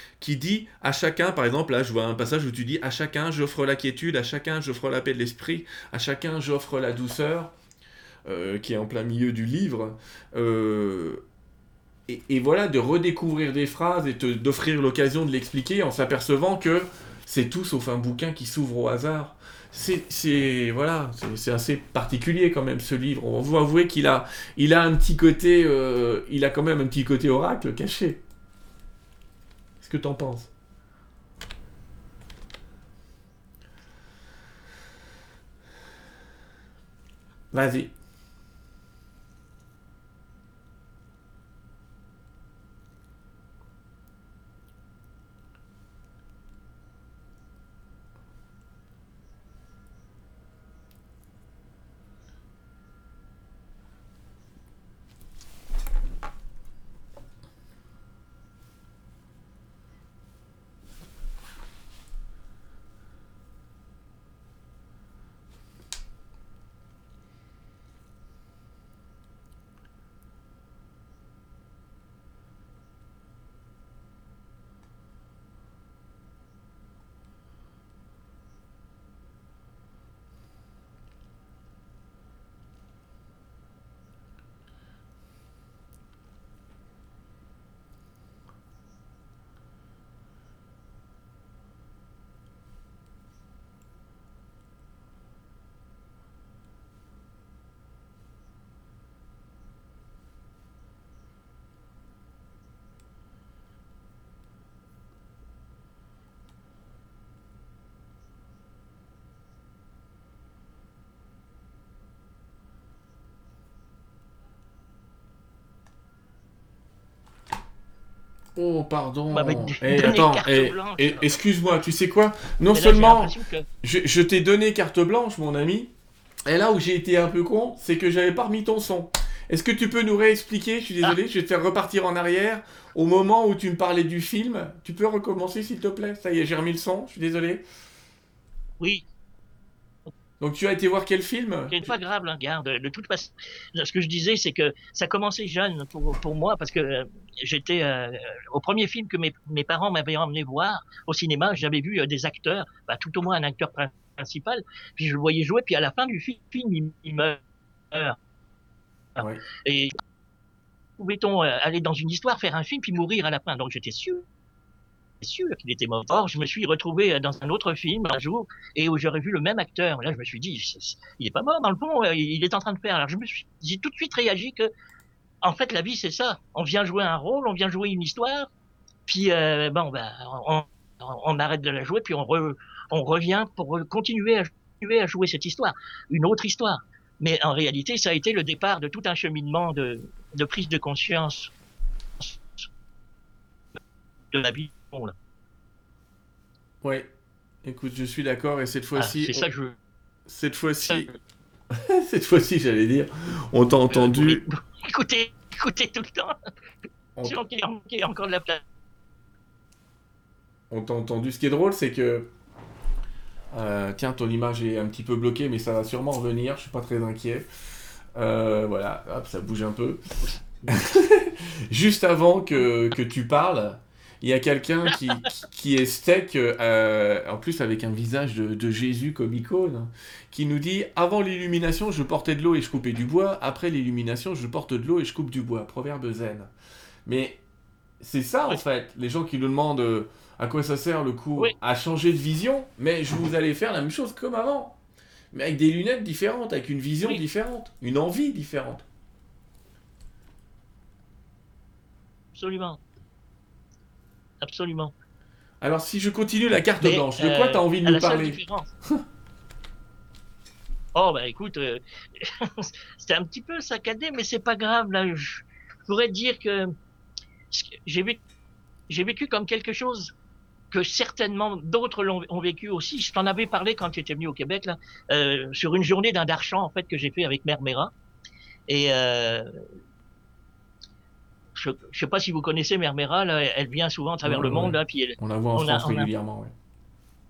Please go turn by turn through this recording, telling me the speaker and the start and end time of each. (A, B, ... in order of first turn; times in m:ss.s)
0:00.2-0:07.5 A
0:08.3-0:11.2 A
0:12.1-0:28.2 A
0:29.8-0:30.5 A
0:37.5-0:37.9 A
1:58.6-2:05.9 A
1:59.3-2:01.3 B
2:02.7-2:03.7 B
2:06.5-2:17.6 A
2:18.8-2:19.1 B
2:20.4-2:21.9 A
2:21.7-2:37.4 B
2:37.9-2:38.2 B
2:39.2-2:39.4 A
2:39.5-2:40.0 B
2:41.0-2:44.2 B
2:45.2-2:54.7 B
2:55.4-2:58.5 B
2:59.1-3:11.5 B
3:14.3-3:15.2 B
3:16.8-3:17.1 A
3:17.6-3:19.5 A
3:19.0-3:19.8 B
3:20.3-3:21.1 A
3:21.7-3:24.4 A
3:23.9-3:26.4 B
3:27.2-3:28.6 B
3:30.7-3:32.3 A
3:33.5-3:37.4 A
3:38.2-3:40.0 A
3:40.7-3:56.5 A
3:57.1-3:57.4 A
3:58.0-4:04.8 A
4:05.3-4:08.8 A
4:12.4-4:12.8 B
4:14.4-4:14.9 B
4:15.6-4:18.4 A
4:16.8-4:18.7 B
4:21.0-4:26.8 B
4:27.5-4:28.2 B
4:28.9-4:30.1 B
4:30.7-4:37.9 B
4:38.7-4:39.6 B
4:41.6-4:46.1 B
4:44.2-4:46.5 A